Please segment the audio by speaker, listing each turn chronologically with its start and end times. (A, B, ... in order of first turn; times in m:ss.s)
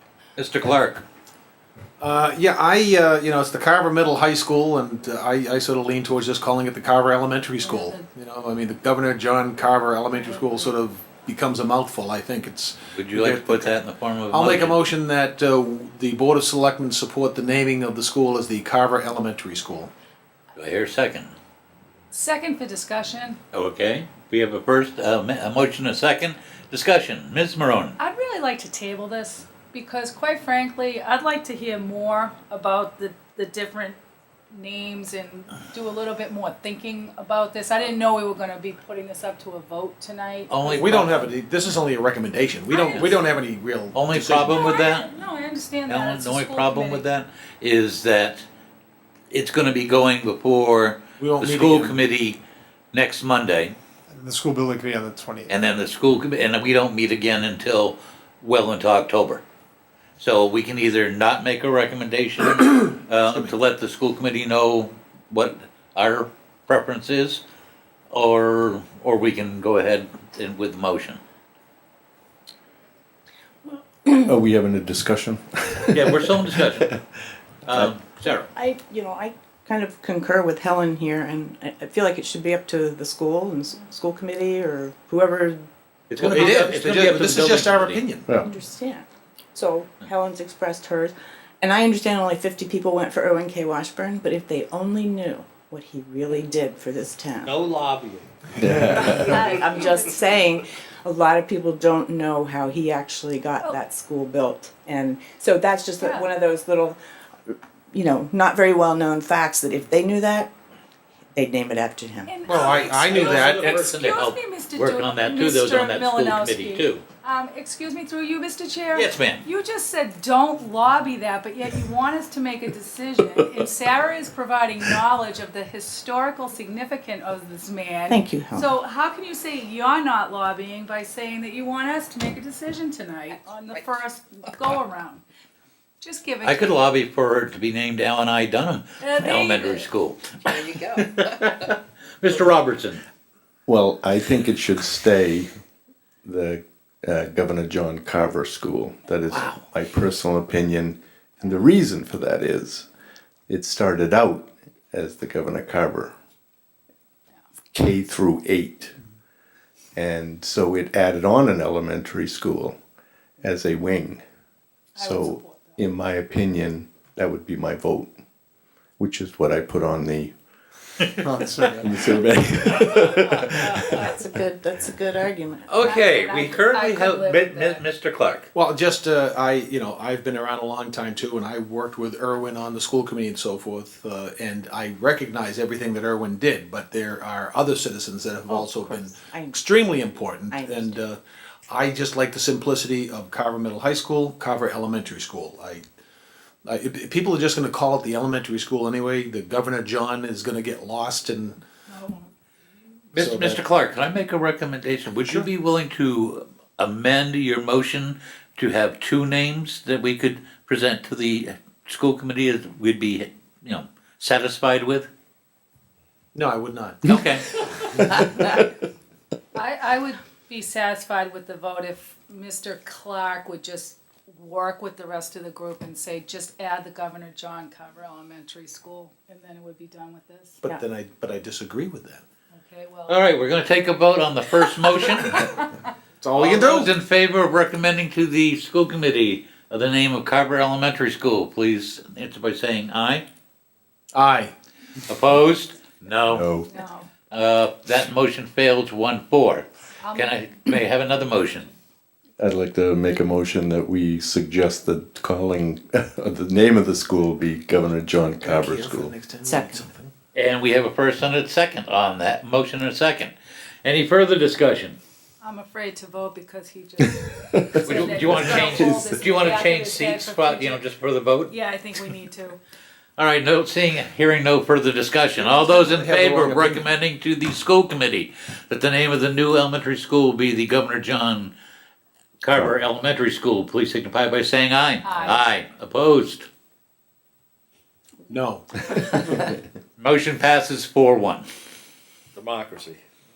0:00.4-0:01.0 A
0:02.0-0:13.8 B
0:07.6-0:08.0 C
0:10.2-0:10.8 C
0:12.9-0:14.8 A
0:14.3-0:19.9 B
0:20.6-0:21.3 A
0:22.1-0:23.4 C
0:23.5-0:28.0 A
0:28.0-0:34.0 C
0:34.5-0:40.9 C
0:40.5-0:41.3 A
0:40.7-0:44.7 B
0:42.7-0:43.2 C
0:43.9-0:45.1 A
0:44.5-0:47.1 C
0:45.9-0:48.4 A
0:49.3-0:52.4 A
0:51.2-0:52.0 B
0:52.9-0:53.8 A
0:54.1-0:55.6 D
0:55.5-0:59.4 A
1:00.2-1:07.4 A
1:03.2-1:03.6 B
1:08.1-1:11.2 A
1:14.2-1:17.0 E
1:15.9-1:16.9 A
1:17.7-1:18.5 A
1:17.7-1:18.0 E
1:18.5-1:25.7 F
1:26.1-1:28.0 A
1:26.2-1:28.4 B
1:28.4-1:37.5 F
1:37.4-1:38.3 G
1:38.6-1:39.5 E
1:38.9-1:39.2 G
1:39.0-1:50.5 F
1:39.4-1:39.8 C
1:46.0-1:46.3 C
1:51.3-1:52.4 F
1:52.3-1:53.2 C
1:52.4-1:53.9 B
1:52.5-1:57.0 A
1:53.2-1:53.6 G
1:53.8-2:15.2 C
1:59.0-1:59.4 A
2:08.1-2:08.7 F
2:16.0-2:16.9 C
2:16.4-2:23.0 A
2:19.0-2:19.9 C
2:23.7-2:25.5 E
2:26.2-2:32.9 E
2:29.3-2:29.6 A
2:33.5-2:36.1 E
2:37.7-2:39.0 E
2:40.0-2:42.8 E
2:43.4-2:44.2 E
2:45.0-2:45.8 C
2:45.0-2:48.1 E
2:49.0-2:50.3 E
2:51.2-2:52.0 D
2:51.6-2:54.2 E
2:54.0-2:55.7 F
2:55.7-2:58.5 A
2:55.8-2:57.8 C
2:58.5-3:15.8 B
3:08.5-3:09.6 F
3:10.5-3:11.0 F
3:16.6-3:21.6 B
3:21.9-3:22.3 C
3:23.1-3:35.1 A
3:23.2-3:23.6 B
3:36.3-3:37.2 B
3:37.0-3:38.4 A
3:39.5-3:50.6 C
3:50.6-3:52.2 B
3:52.5-3:53.2 C
3:53.1-3:55.6 A
3:55.2-3:55.8 C
3:56.2-3:56.9 B
3:56.4-4:03.2 A
4:04.1-4:04.5 B
4:05.1-4:06.5 A
4:06.3-4:06.7 E
4:06.7-4:07.1 C
4:07.3-4:11.7 A
4:10.0-4:10.6 C
4:12.4-4:19.1 E
4:18.4-4:20.1 B
4:20.4-4:23.3 A
4:23.8-4:25.0 A
4:25.4-4:27.3 C
4:27.5-4:29.2 E
4:27.8-4:30.8 C
4:27.8-4:31.5 A
4:31.5-4:32.6 C
4:33.2-4:41.5 A
4:35.4-4:36.9 B
4:42.4-4:46.5 A
4:45.0-4:45.5 C
4:48.3-4:48.8 B
4:50.0-4:51.5 A
4:52.4-4:53.0 G